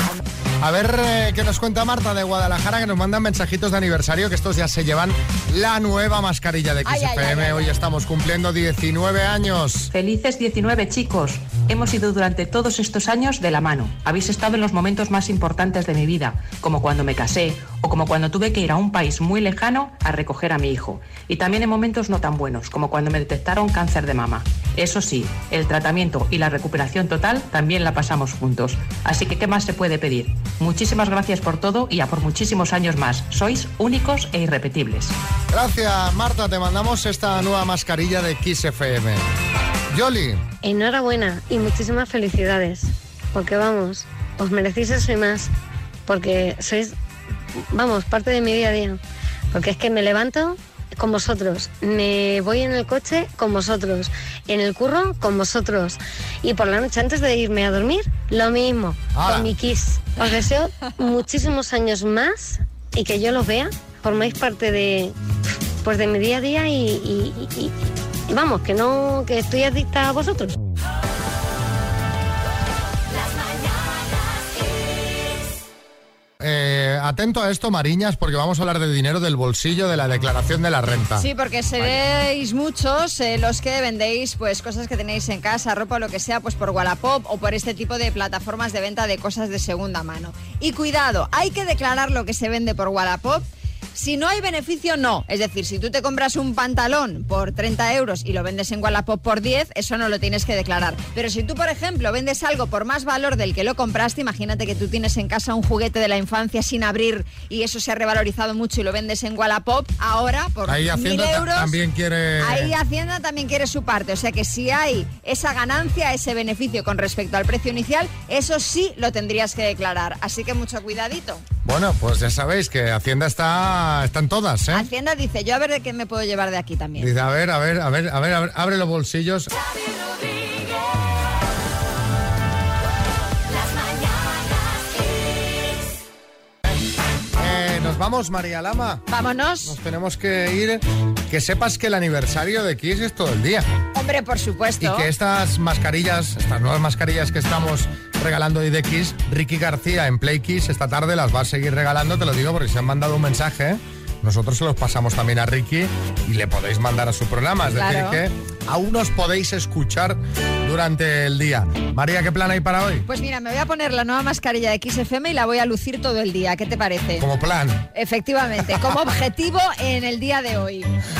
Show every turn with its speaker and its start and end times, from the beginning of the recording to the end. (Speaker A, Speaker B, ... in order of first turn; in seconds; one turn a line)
Speaker A: 0.6-9.9
Speaker B: 6.9-7.7
Speaker C: 9.9-35.1
Speaker A: 35.5-39.2
Speaker A: 39.9-40.4
Speaker D: 40.6-45.5
Speaker D: 46.1-46.9
Speaker D: 47.7-49.0
Speaker D: 49.5-65.1
Speaker A: 59.1-59.5
Speaker D: 65.8-67.7
Speaker D: 68.3-70.6
Speaker A: 76.4-81.3
Speaker B: 81.2-111.8
Speaker A: 81.8-82.0
Speaker A: 110.7-112.7
Speaker B: 112.4-121.4
Speaker A: 121.6-124.9
Speaker B: 124.7-127.1
Speaker A: 127.0-129.5
Speaker A: 137.4-139.0
Speaker B: 139.1-139.7
Speaker A: 139.6-143.7
Speaker B: 143.9-145.1
Speaker A: 144.8-163.1
Speaker B: 157.7-158.2
Speaker B: 163.1-167.3
Speaker A: 167.2-167.9
Speaker B: 167.9-170.9